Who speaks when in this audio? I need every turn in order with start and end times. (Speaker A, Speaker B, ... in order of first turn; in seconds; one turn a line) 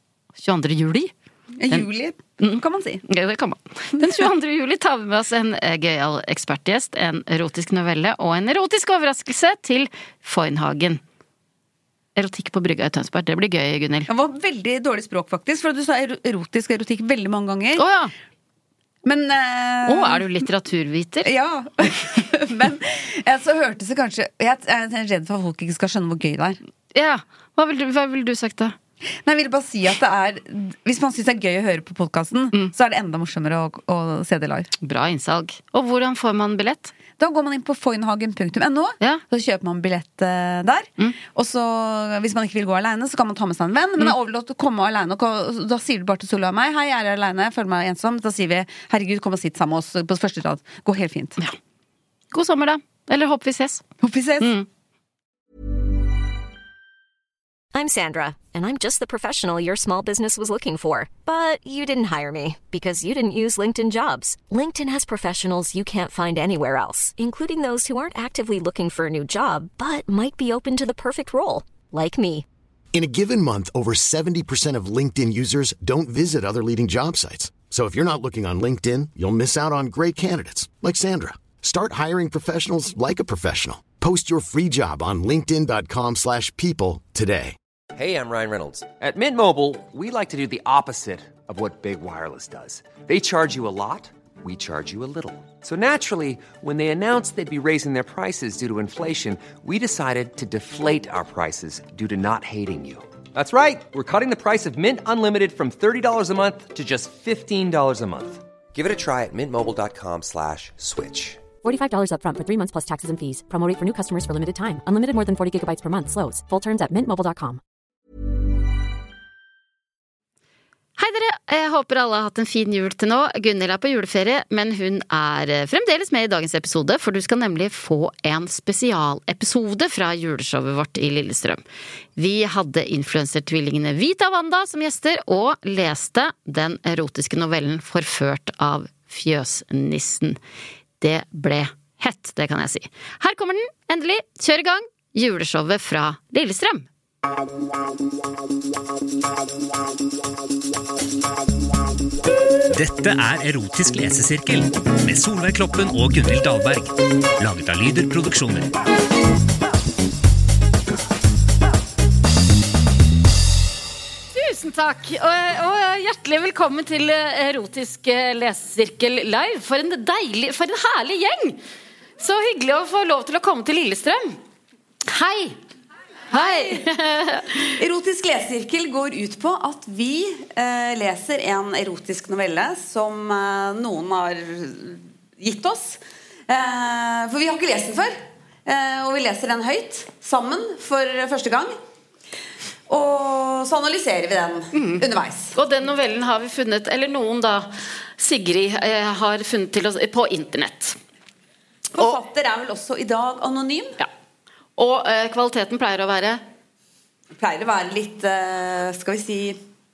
Speaker A: 0.4-1.1
Speaker B: 1.6-3.0
Speaker A: 2.4-11.0
Speaker B: 3.9-4.2
Speaker A: 12.1-14.1
Speaker B: 14.1-17.9
Speaker A: 17.8-18.1
Speaker B: 19.0-20.3
Speaker A: 19.9-21.3
Speaker B: 21.2-26.6
Speaker A: 26.9-28.8
Speaker B: 29.2-34.7
Speaker A: 34.8-36.9
Speaker B: 37.2-51.4
Speaker A: 52.3-53.8
Speaker B: 54.0-54.5
Speaker A: 54.4-54.7
Speaker C: 57.7-72.5
Speaker D: 72.9-87.5
Speaker E: 88.0-111.5
Speaker F: 111.6-117.6
Speaker A: 121.0-131.6
Speaker A: 132.2-140.4
Speaker A: 141.0-146.9
Speaker G: 152.7-158.7
Speaker A: 164.3-171.6
Speaker A: 172.2-174.4
Speaker A: 175.1-175.6
Speaker A: 176.3-177.8
Speaker B: 176.3-176.8
Speaker B: 177.8-191.8
Speaker B: 192.9-195.6
Speaker A: 194.7-201.0
Speaker B: 201.9-204.0
Speaker A: 204.8-206.4
Speaker B: 207.4-209.6